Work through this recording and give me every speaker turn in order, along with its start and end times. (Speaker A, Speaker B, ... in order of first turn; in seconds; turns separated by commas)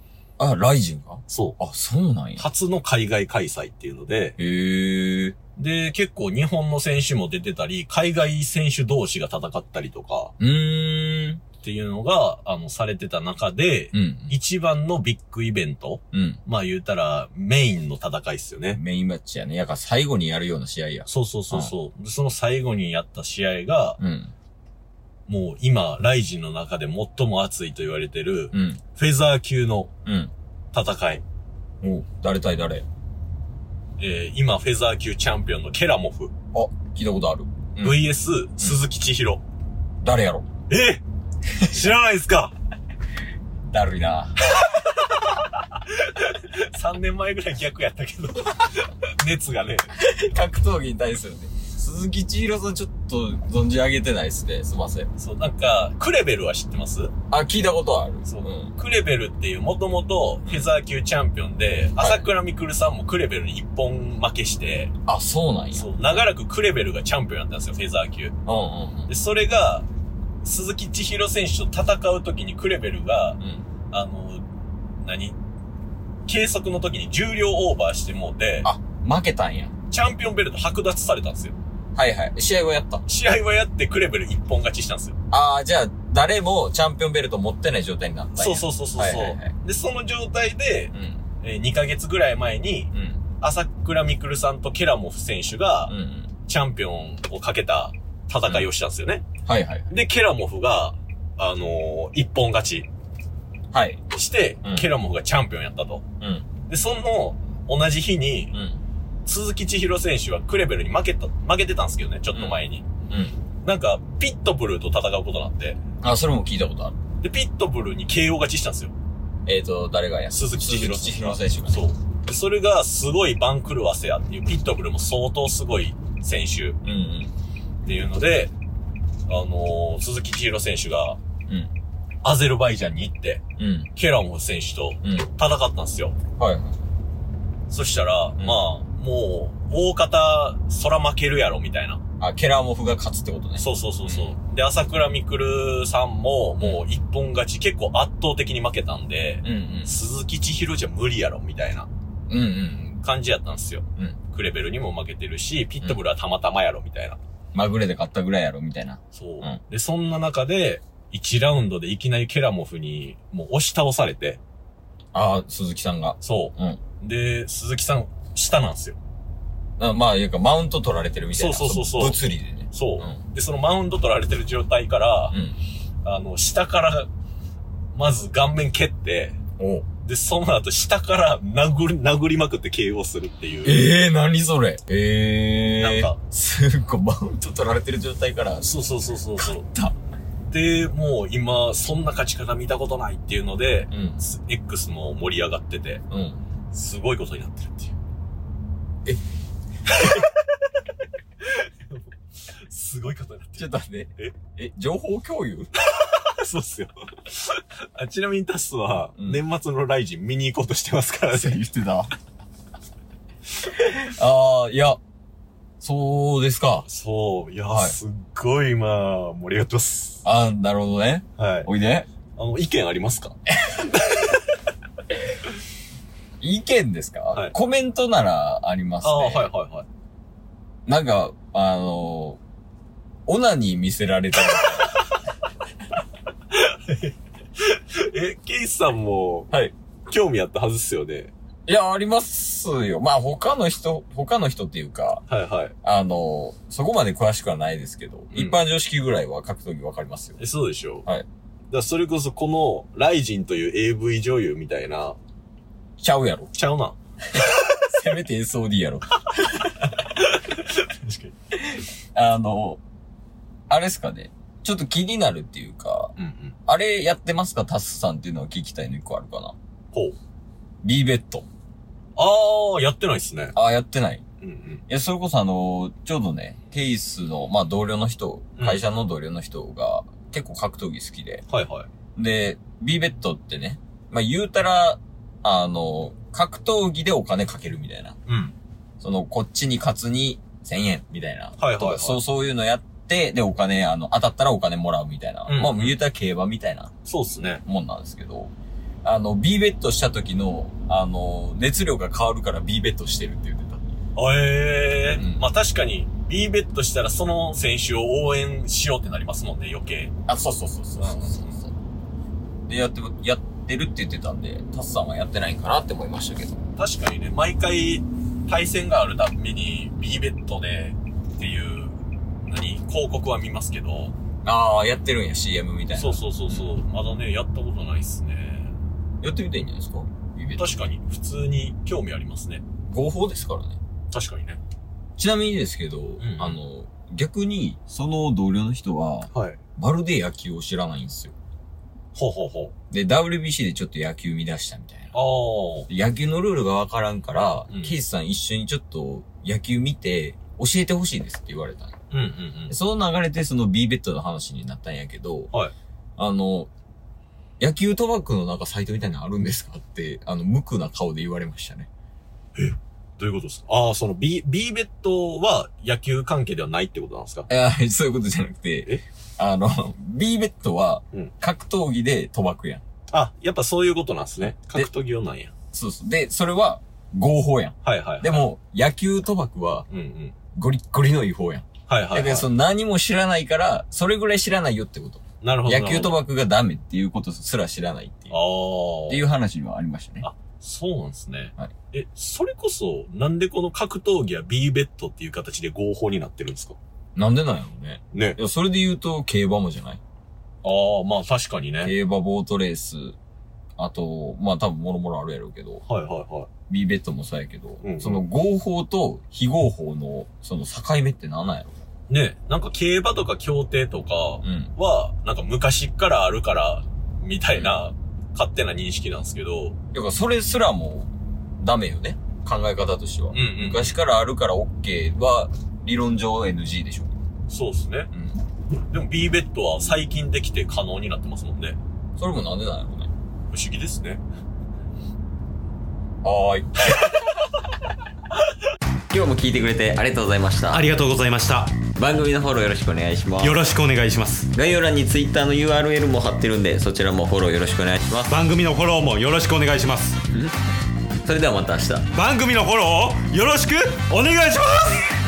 Speaker A: 0.4-2.5, Speaker B: 1.3-1.6, Speaker B: 2.4-4.4, Speaker A: 4.4-5.4, Speaker B: 5.6-10.3, Speaker A: 10.4-11.4, Speaker B: 11.6-18.8, Speaker A: 13.9-14.4, Speaker A: 16.1-16.4, Speaker A: 18.7-21.7, Speaker B: 21.1-24.0, Speaker A: 24.0-24.3, Speaker B: 25.3-29.9, Speaker A: 28.5-28.8, Speaker A: 30.1-30.3, Speaker B: 30.7-31.2, Speaker A: 31.8-32.9, Speaker B: 34.0-36.3, Speaker A: 36.5-38.0, Speaker B: 37.8-39.4, Speaker A: 40.0-40.5, Speaker B: 40.7-41.0, Speaker B: 41.6-42.5, Speaker A: 43.7-44.5, Speaker B: 44.6-45.1, Speaker B: 45.8-49.9, Speaker A: 50.0-55.1, Speaker B: 55.2-57.1, Speaker A: 57.3-58.7, Speaker B: 58.3-64.9, Speaker A: 60.5-60.7, Speaker A: 62.0-62.3, Speaker A: 65.1-66.2, Speaker B: 65.7-68.3, Speaker A: 68.5-69.1, Speaker B: 69.1-69.9, Speaker B: 70.4-73.4, Speaker B: 73.9-74.5, Speaker B: 75.0-75.4, Speaker B: 76.3-78.7, Speaker A: 78.6-79.7, Speaker B: 79.9-81.6, Speaker A: 82.0-83.0, Speaker B: 83.1-85.2, Speaker A: 85.3-89.5, Speaker B: 88.4-95.9, Speaker A: 90.9-91.2, Speaker A: 92.9-93.2, Speaker A: 95.9-96.3, Speaker B: 96.5-99.2, Speaker A: 99.5-99.9, Speaker B: 99.9-102.9, Speaker A: 103.7-104.0, Speaker B: 104.1-106.0, Speaker A: 106.2-106.5, Speaker B: 106.7-108.6, Speaker A: 108.5-108.8, Speaker B: 109.3-112.8, Speaker A: 112.3-113.4, Speaker B: 113.6-115.8, Speaker A: 116.0-117.0, Speaker B: 117.2-118.9, Speaker A: 119.5-121.8, Speaker B: 120.3-126.8, Speaker A: 126.8-127.3, Speaker B: 127.8-128.5, Speaker B: 129.3-131.2, Speaker B: 132.2-133.4, Speaker A: 133.6-133.9, Speaker B: 133.9-136.2, Speaker A: 135.0-135.3, Speaker A: 136.4-136.8, Speaker B: 137.7-142.0, Speaker A: 142.2-144.3, Speaker B: 143.6-151.9, Speaker A: 149.4-149.9, Speaker A: 152.3-153.0, Speaker B: 153.0-157.2, Speaker A: 157.5-159.6, Speaker B: 159.1-164.4, Speaker A: 165.1-166.8, Speaker B: 166.2-169.0, Speaker A: 169.8-173.2, Speaker B: 171.3-172.2, Speaker B: 172.7-175.4, Speaker A: 175.3-175.6, Speaker B: 176.0-177.1, Speaker B: 177.9-179.4, Speaker A: 179.6-179.9, Speaker B: 180.0-183.9, Speaker A: 183.6-188.7, Speaker B: 185.8-186.2, Speaker B: 188.6-189.7, Speaker A: 189.4-190.0, Speaker B: 190.5-196.0, Speaker A: 193.9-194.2, Speaker A: 196.1-196.4, Speaker B: 196.7-197.9, Speaker B: 199.9-200.3, Speaker B: 201.4-204.3, Speaker A: 203.6-205.7, Speaker B: 205.8-211.6, Speaker A: 209.2-209.4, Speaker A: 211.3-212.1, Speaker A: 213.6-215.0, Speaker A: 215.8-216.9, Speaker B: 216.9-220.2, Speaker A: 217.7-218.0, Speaker A: 220.2-222.1, Speaker B: 221.4-221.7, Speaker B: 222.3-223.3, Speaker B: 223.9-224.4, Speaker A: 226.4-229.5, Speaker B: 229.0-229.9, Speaker A: 230.9-232.4, Speaker A: 233.3-235.0, Speaker B: 236.5-239.5, Speaker B: 240.1-241.3, Speaker A: 241.7-245.2, Speaker B: 245.3-245.7, Speaker A: 245.8-250.4, Speaker B: 248.3-248.6, Speaker B: 250.4-251.1, Speaker B: 251.7-255.2, Speaker A: 256.0-256.5, Speaker B: 256.5-257.0, Speaker A: 257.3-259.9, Speaker B: 260.0-261.3, Speaker A: 261.5-262.8, Speaker A: 263.7-266.1, Speaker B: 266.2-266.6, Speaker A: 266.7-269.6, Speaker A: 270.8-271.5, Speaker B: 272.2-273.6, Speaker A: 273.6-274.2, Speaker B: 274.4-274.8, Speaker A: 274.9-281.4, Speaker B: 278.6-278.8, Speaker B: 281.5-281.9, Speaker A: 282.2-288.2, Speaker B: 288.3-288.6, Speaker A: 289.0-296.9, Speaker B: 291.6-292.2, Speaker B: 295.5-296.0, Speaker B: 297.1-297.6, Speaker A: 297.6-298.5, Speaker A: 299.0-303.8, Speaker B: 304.2-310.1, Speaker A: 305.1-305.4, Speaker A: 310.3-311.7, Speaker B: 311.0-311.6, Speaker A: 312.7-316.6, Speaker B: 316.8-324.1, Speaker A: 324.4-326.8, Speaker B: 325.9-328.7, Speaker A: 329.2-330.8, Speaker B: 330.6-332.6, Speaker A: 332.9-333.8, Speaker B: 334.1-334.6, Speaker A: 335.2-341.4, Speaker B: 336.2-336.6, Speaker B: 339.3-339.6, Speaker B: 342.1-342.7, Speaker A: 342.9-345.1, Speaker B: 345.1-345.9, Speaker A: 345.9-352.0, Speaker B: 347.7-348.0, Speaker B: 352.1-352.7, Speaker A: 352.7-355.5, Speaker A: 356.2-356.7, Speaker A: 357.6-361.9, Speaker B: 362.6-367.5, Speaker A: 367.5-372.8, Speaker B: 373.1-375.5, Speaker A: 374.6-374.9, Speaker A: 375.7-379.9, Speaker B: 377.8-378.4, Speaker B: 379.9-380.4, Speaker A: 380.6-388.4, Speaker B: 381.9-382.5, Speaker B: 385.4-386.2, Speaker B: 388.3-389.3, Speaker A: 389.1-390.3, Speaker B: 390.2-396.8, Speaker A: 397.2-400.0, Speaker B: 398.1-398.4, Speaker B: 400.6-401.9, Speaker A: 401.8-403.2, Speaker A: 403.8-405.8, Speaker B: 405.9-406.5, Speaker A: 406.7-411.8, Speaker B: 407.8-408.2, Speaker B: 412.1-419.8, Speaker A: 414.4-414.7, Speaker A: 419.9-427.1, Speaker B: 423.3-424.0, Speaker B: 427.5-428.1, Speaker A: 428.1-428.4, Speaker B: 428.9-431.8, Speaker A: 432.2-433.1, Speaker B: 433.5-434.2, Speaker A: 436.2-437.3, Speaker A: 439.1-440.9, Speaker C: 440.7-441.8, Speaker A: 441.9-443.6, Speaker C: 443.4-444.5, Speaker A: 444.5-448.4, Speaker C: 448.3-450.2, Speaker A: 450.3-450.6, Speaker A: 451.2-452.1, Speaker C: 452.1-455.1